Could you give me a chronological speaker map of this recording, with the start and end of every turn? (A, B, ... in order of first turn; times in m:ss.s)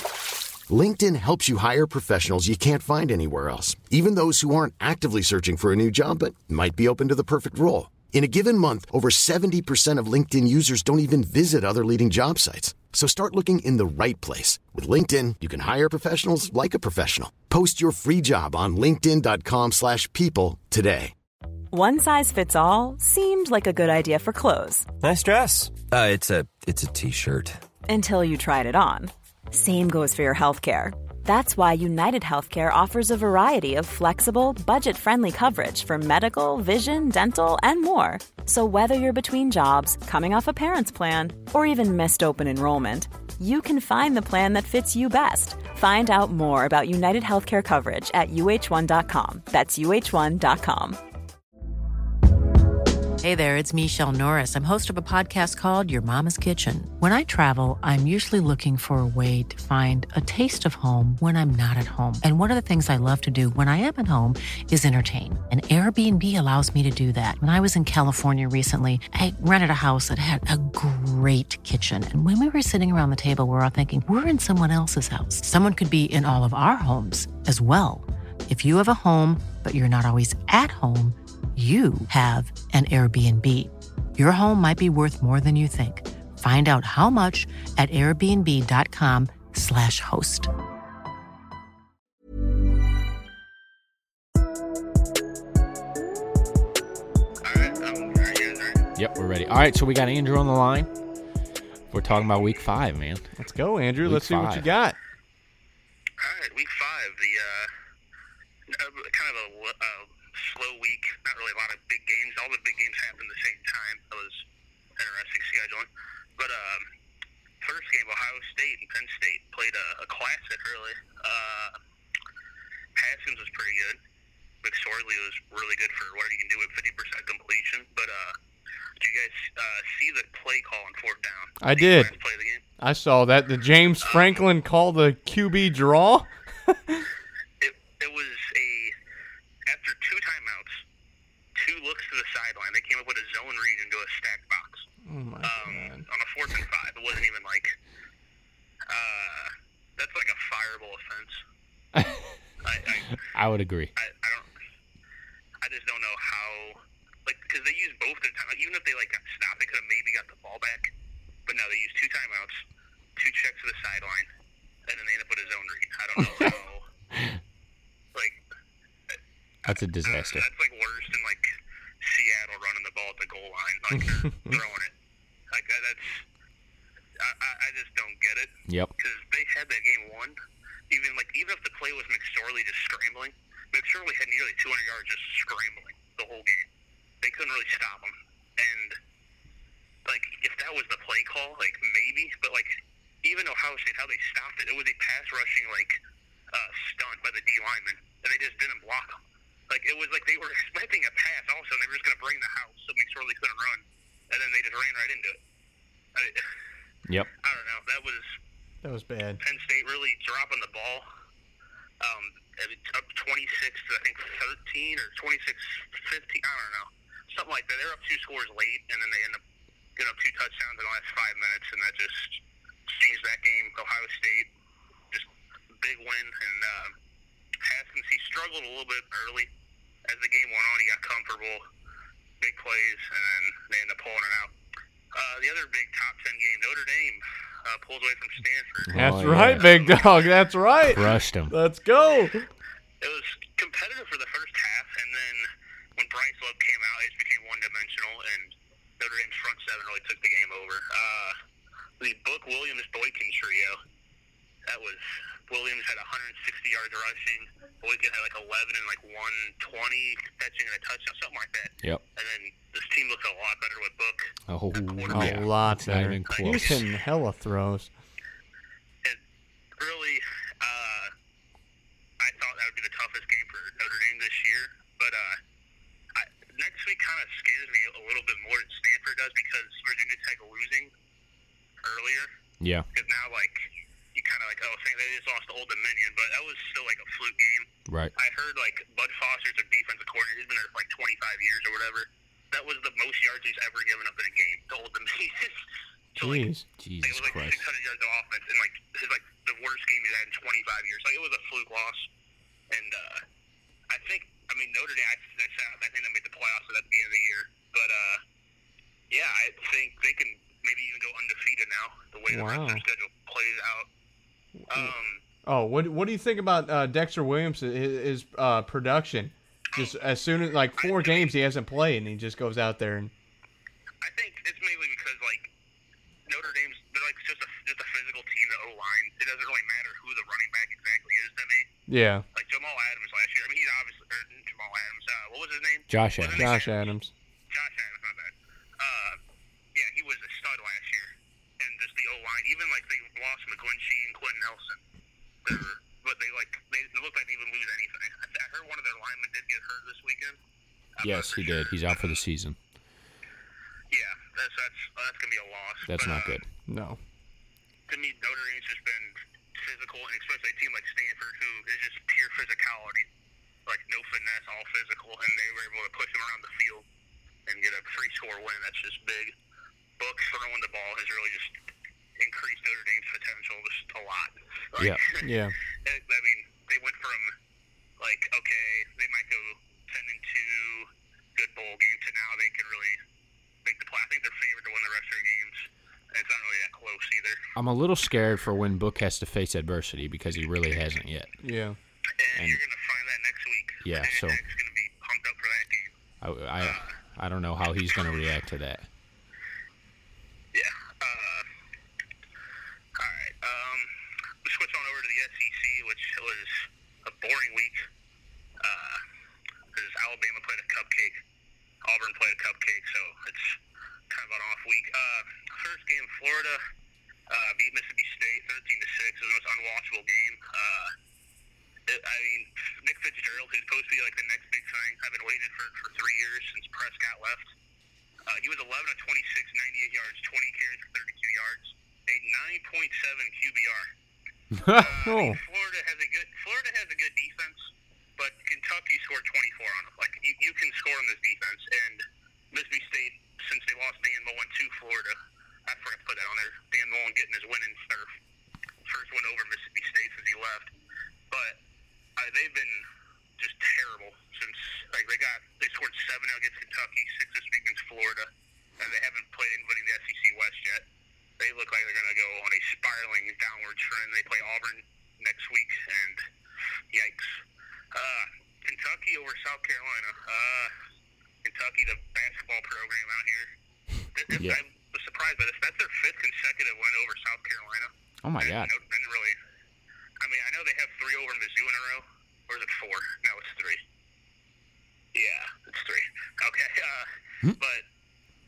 0:00.7-0:21.1 A
0:21.7-0:24.9 B
0:25.0-0:27.6 C
0:27.9-0:51.0 B
0:53.2-1:30.5 D
1:37.4-1:38.9 E
1:39.0-1:40.9 F
1:41.9-1:43.3 F
1:43.4-1:45.0 G
1:44.0-1:44.7 F
1:46.2-1:47.7 E
1:48.7-1:54.4 E
1:55.0-1:56.9 E
1:57.6-2:01.8 E
2:03.0-2:04.0 E
2:04.6-2:08.4 E
2:09.0-2:12.6 E
2:11.6-2:12.1 G
2:12.8-2:17.0 G
2:14.0-2:14.4 E
2:17.6-2:19.0 E
2:19.7-2:20.8 E
2:21.6-2:24.9 E
2:25.1-2:26.1 G
2:25.4-2:27.8 E
2:28.9-2:31.4 E
2:32.0-2:32.3 F
2:32.6-2:33.2 E
2:33.3-2:33.9 F
2:34.0-2:34.5 E
2:35.6-2:40.9 E
2:41.5-2:42.6 E
2:43.2-2:44.3 E
2:44.9-2:46.9 E
2:48.1-2:48.4 E
2:49.7-2:50.4 F
2:50.0-2:54.9 E
2:55.5-2:56.3 E
2:57.2-3:00.4 E
2:58.7-2:58.9 F
3:00.9-3:06.7 E
3:07.2-3:09.0 E
3:10.1-3:16.0 E
3:16.5-3:25.4 E
3:26.2-3:26.5 E
3:27.4-3:28.4 E
3:28.8-3:29.4 G
3:29.4-3:31.1 E
3:32.0-3:39.4 E
3:40.0-3:44.5 E
3:45.1-3:47.0 E
3:47.6-3:49.5 E
3:50.1-3:51.6 E
3:52.4-3:54.5 E
3:55.1-4:00.3 E
3:58.9-3:59.7 F
3:58.9-4:02.5 G
4:00.9-4:01.5 F
4:03.0-4:11.4 E
4:12.0-4:13.8 E
4:14.7-4:25.5 E
4:24.5-4:26.8 F
4:25.1-4:27.9 G
4:26.3-4:26.7 E
4:29.8-4:31.1 E
4:32.2-4:35.4 E
4:36.2-4:40.9 E
4:41.8-4:42.3 E
4:42.6-4:42.9 F
4:42.9-4:56.5 E
4:47.9-4:48.1 F
4:56.2-4:56.7 G
4:56.8-4:57.6 F
4:57.0-5:02.1 E
5:02.7-5:03.2 E
5:03.9-5:08.2 E
5:09.1-5:13.9 E
5:12.3-5:12.8 G
5:14.7-5:14.9 G
5:14.7-5:15.2 E
5:15.5-5:23.1 G
5:20.8-5:21.4 E
5:24.0-5:25.5 E
5:26.3-5:31.7 E
5:31.9-5:32.2 G
5:32.3-5:37.0 E
5:35.9-5:36.5 F
5:36.4-5:37.1 G
5:37.5-5:39.2 E
5:39.8-5:44.8 E
5:45.4-5:50.4 E
5:51.0-5:52.2 E
5:51.0-5:52.6 F
5:53.9-5:56.4 E
5:55.9-5:56.5 F
5:56.7-5:57.0 G
5:57.9-6:03.1 E
6:03.7-6:06.8 E
6:07.5-6:09.4 E
6:10.0-6:11.6 E
6:12.2-6:15.3 E
6:14.8-6:15.0 F
6:15.2-6:15.5 G
6:15.8-6:17.3 E
6:18.0-6:23.0 E
6:23.6-6:27.5 E
6:27.6-6:31.4 F
6:31.4-6:31.8 G
6:32.2-6:36.0 E
6:33.8-6:34.4 F
6:36.2-6:38.9 F
6:36.6-6:37.0 E
6:40.5-6:41.5 E
6:43.0-6:47.9 E
6:48.6-6:49.0 E
6:49.7-6:51.2 E
6:51.8-6:53.6 E
6:54.1-6:56.6 E
6:57.3-7:00.9 E
7:01.9-7:07.5 E
7:08.3-7:13.9 E
7:14.6-7:14.9 F
7:14.7-7:28.2 E
7:15.0-7:15.4 G
7:28.9-7:30.7 E
7:31.3-7:31.6 E
7:32.2-7:32.9 E
7:33.4-7:40.9 E
7:41.4-7:46.2 E
7:46.9-7:50.7 E
7:51.4-7:53.5 E
7:54.1-7:59.4 E
7:58.2-7:58.7 F
8:00.2-8:03.8 E
8:05.1-8:07.9 E